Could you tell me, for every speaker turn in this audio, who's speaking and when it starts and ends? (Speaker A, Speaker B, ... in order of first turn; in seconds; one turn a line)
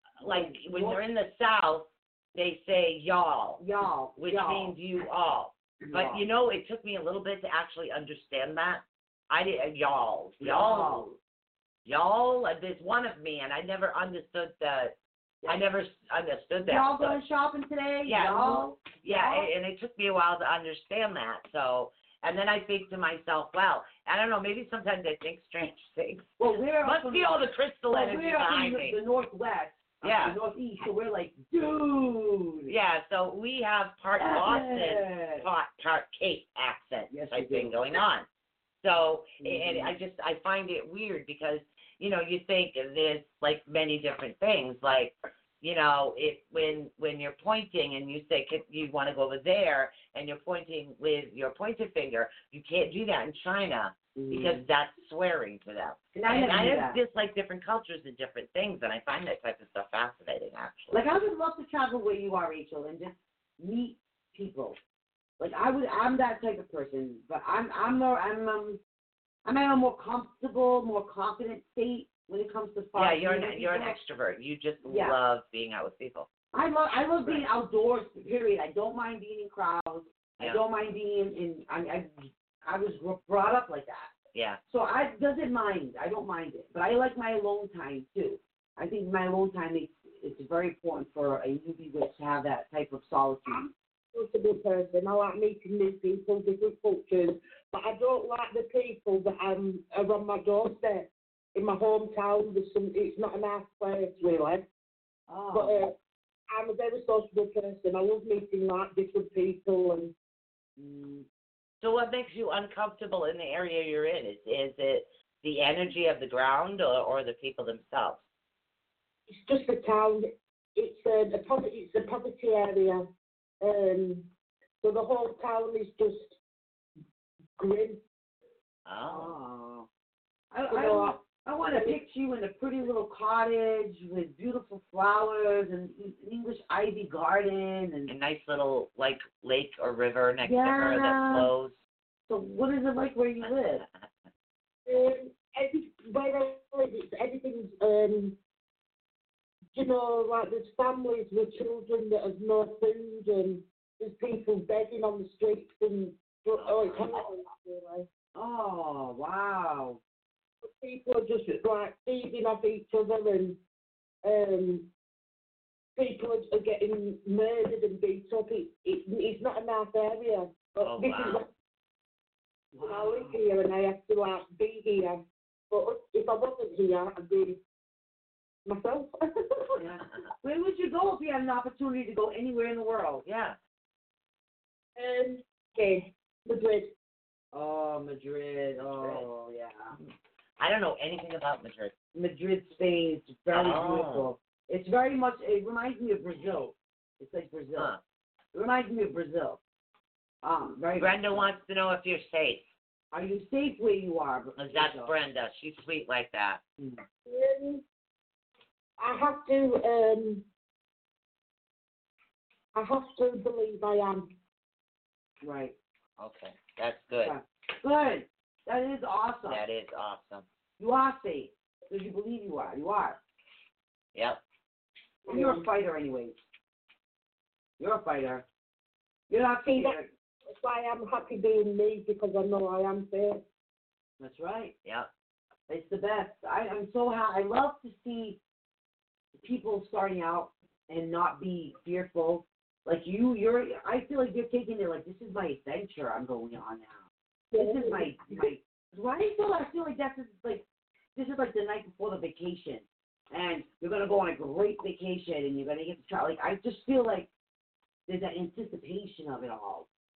Speaker A: 0.2-3.6
Speaker B: 0.2-1.0
Speaker B: 3.6-4.8
Speaker A: 4.2-11.2
Speaker B: 5.8-6.2
Speaker B: 10.4-11.1
Speaker A: 11.8-14.9
Speaker A: 15.4-17.2
Speaker B: 16.6-19.5
Speaker A: 18.0-29.0
Speaker B: 26.4-32.7
Speaker A: 30.0-30.4
Speaker A: 32.7-38.2
Speaker B: 34.2-35.5
Speaker B: 37.1-37.8
Speaker A: 38.8-61.0
Speaker B: 39.4-39.9
Speaker B: 54.1-54.6
Speaker B: 56.1-57.0
Speaker B: 60.9-64.8
Speaker B: 65.4-68.8
Speaker B: 69.4-74.0
Speaker A: 73.0-76.3
Speaker B: 74.8-75.2
Speaker B: 76.5-84.1
Speaker A: 77.2-77.4
Speaker A: 84.3-84.6
Speaker B: 84.7-93.7
Speaker C: 94.1-104.7
Speaker B: 105.3-105.8
Speaker C: 105.5-105.9
Speaker C: 106.5-110.1
Speaker B: 110.8-111.3
Speaker A: 111.8-118.2
Speaker C: 119.3-123.0
Speaker C: 123.6-124.3
Speaker C: 124.8-126.4
Speaker C: 127.6-128.0
Speaker A: 128.8-129.3
Speaker B: 129.1-129.9
Speaker B: 130.5-138.1
Speaker C: 130.7-131.2
Speaker C: 131.7-132.0
Speaker A: 138.1-141.8
Speaker B: 140.4-141.5
Speaker B: 142.3-143.8
Speaker A: 143.4-143.9
Speaker C: 144.9-148.4
Speaker C: 149.7-158.1
Speaker A: 156.6-157.1
Speaker B: 158.3-160.0
Speaker C: 160.6-163.6
Speaker C: 164.2-164.9
Speaker C: 165.9-171.5
Speaker A: 170.8-171.4
Speaker B: 172.7-173.4
Speaker C: 172.8-177.6
Speaker C: 178.7-179.8
Speaker B: 179.8-183.2
Speaker A: 183.2-183.6
Speaker C: 185.0-186.9
Speaker B: 187.5-190.0
Speaker A: 188.8-189.2
Speaker A: 190.0-191.9
Speaker B: 192.1-197.9
Speaker A: 193.5-194.3
Speaker B: 198.5-199.6
Speaker B: 200.4-201.5
Speaker A: 201.0-202.7
Speaker B: 203.1-205.1
Speaker A: 204.6-206.6
Speaker B: 206.8-207.0
Speaker C: 207.2-207.8
Speaker C: 209.0-210.4
Speaker C: 212.7-214.3
Speaker B: 215.4-215.8
Speaker A: 216.2-217.3
Speaker B: 217.2-219.6
Speaker A: 219.5-220.4
Speaker B: 220.8-223.2
Speaker A: 224.1-224.4
Speaker C: 225.3-225.7
Speaker B: 225.3-226.4
Speaker B: 227.8-228.4
Speaker B: 229.3-230.1
Speaker C: 229.6-230.0
Speaker C: 230.5-233.4
Speaker B: 234.2-234.7
Speaker A: 234.8-235.1
Speaker B: 235.7-238.4
Speaker B: 239.3-250.6
Speaker C: 247.5-248.5
Speaker B: 251.2-257.3
Speaker B: 258.1-259.9